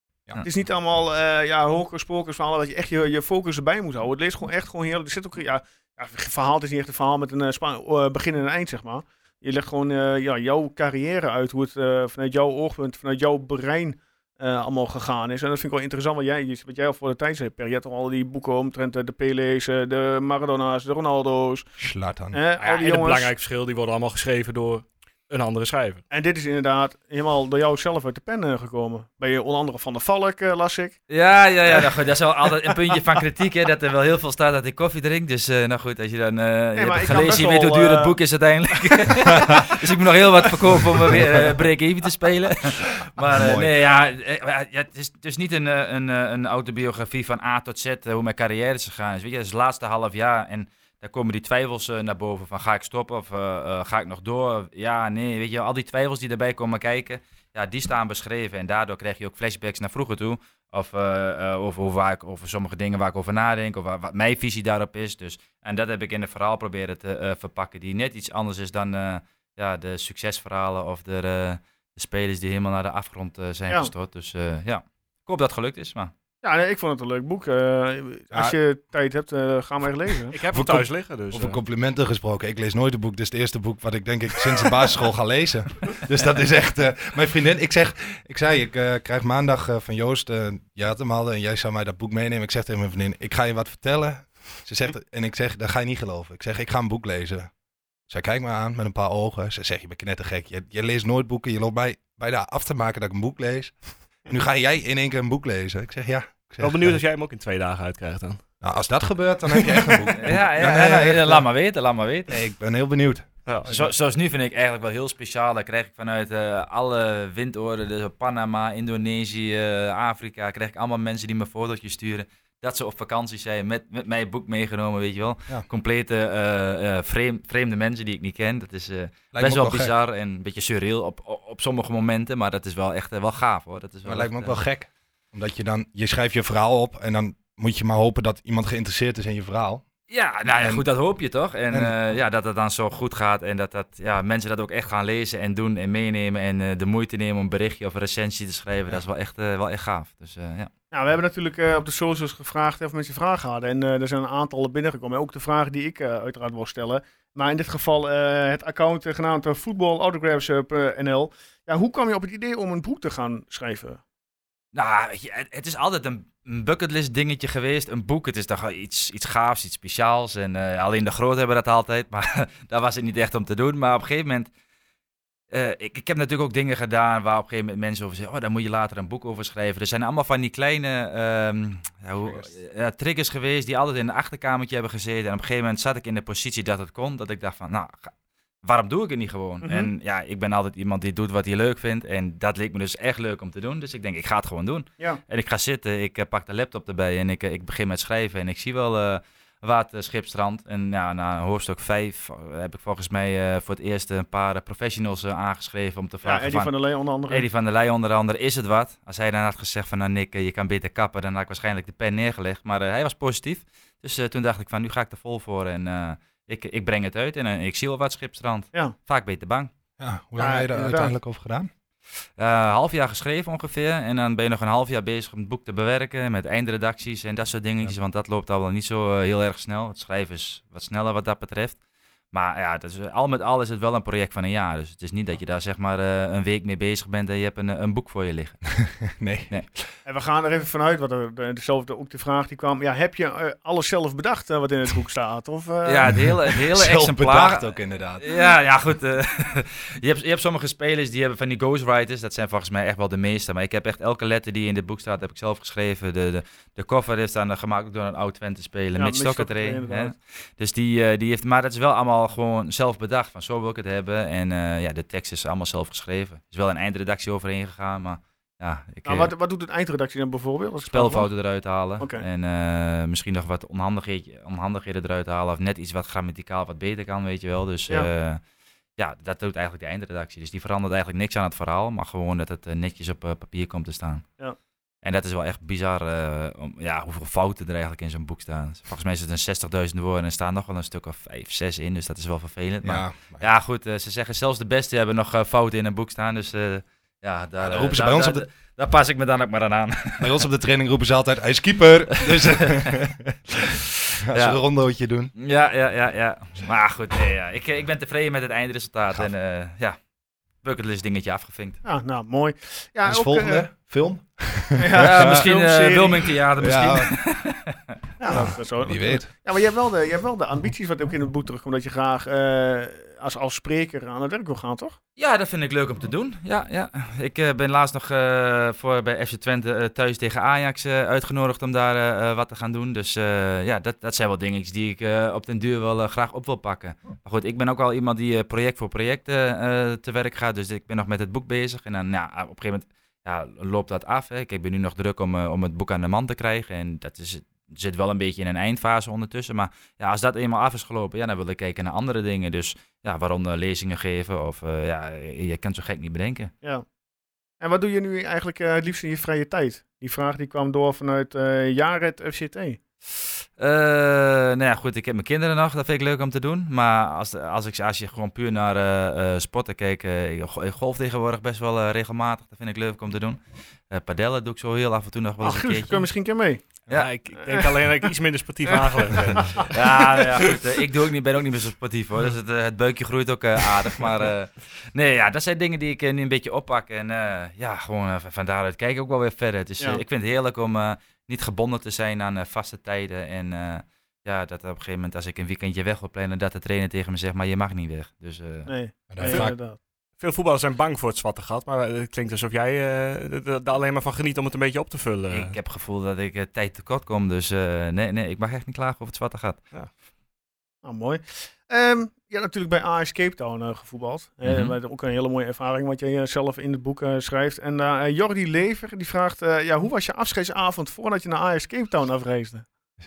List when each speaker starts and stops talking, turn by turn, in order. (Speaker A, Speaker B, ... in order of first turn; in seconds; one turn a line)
Speaker A: 0.4-21.7
Speaker B: 21.8-22.4
Speaker A: 22.3-23.3
Speaker C: 22.6-26.0
Speaker A: 26.1-31.0
Speaker D: 31.1-76.1
Speaker A: 36.8-38.2
Speaker B: 43.2-43.7
Speaker A: 76.4-80.4
Speaker C: 80.3-81.6
Speaker B: 80.5-97.5
Speaker B: 98.1-103.7
Speaker B: 104.2-107.0
Speaker C: 106.6-108.4
Speaker B: 108.6-111.5
Speaker C: 109.7-110.0
Speaker D: 110.2-112.3
Speaker B: 112.3-113.9
Speaker C: 113.5-113.8
Speaker D: 113.7-134.6
Speaker B: 129.3-129.9
Speaker B: 134.1-139.8
Speaker D: 140.1-150.7
Speaker B: 140.5-140.9
Speaker A: 150.9-164.0
Speaker D: 164.7-174.5
Speaker D: 175.5-188.1
Speaker D: 188.6-206.7
Speaker A: 189.6-189.9
Speaker A: 206.2-207.5
Speaker D: 207.3-219.7
Speaker B: 220.0-221.7
Speaker A: 220.4-221.2
Speaker D: 222.4-231.8
Speaker D: 232.3-238.7
Speaker B: 238.8-239.9
Speaker A: 240.1-246.2
Speaker D: 245.8-269.3
Speaker B: 246.1-248.3
Speaker A: 259.0-260.1
Speaker A: 269.1-271.3
Speaker D: 270.9-278.4
Speaker A: 272.0-272.2
Speaker D: 279.0-284.2
Speaker D: 285.0-300.4
Speaker B: 292.8-293.5
Speaker B: 297.6-298.4
Speaker B: 300.2-305.3
Speaker D: 302.3-303.1
Speaker D: 304.1-304.6
Speaker D: 305.4-310.0
Speaker D: 310.6-311.8
Speaker A: 311.8-313.7
Speaker B: 313.1-315.5
Speaker A: 314.8-316.3
Speaker D: 315.0-317.8
Speaker B: 316.6-317.1
Speaker A: 318.2-325.0
Speaker B: 318.3-319.3
Speaker D: 325.2-356.5
Speaker A: 357.6-362.8
Speaker D: 363.6-373.4
Speaker D: 373.9-376.1
Speaker A: 375.4-376.6
Speaker C: 376.9-379.7
Speaker A: 377.4-377.9
Speaker A: 379.4-380.5
Speaker D: 379.5-398.7
Speaker A: 398.7-399.8
Speaker B: 399.1-399.5
Speaker C: 400.2-405.5
Speaker D: 405.3-409.6
Speaker A: 410.8-422.7
Speaker D: 414.4-414.7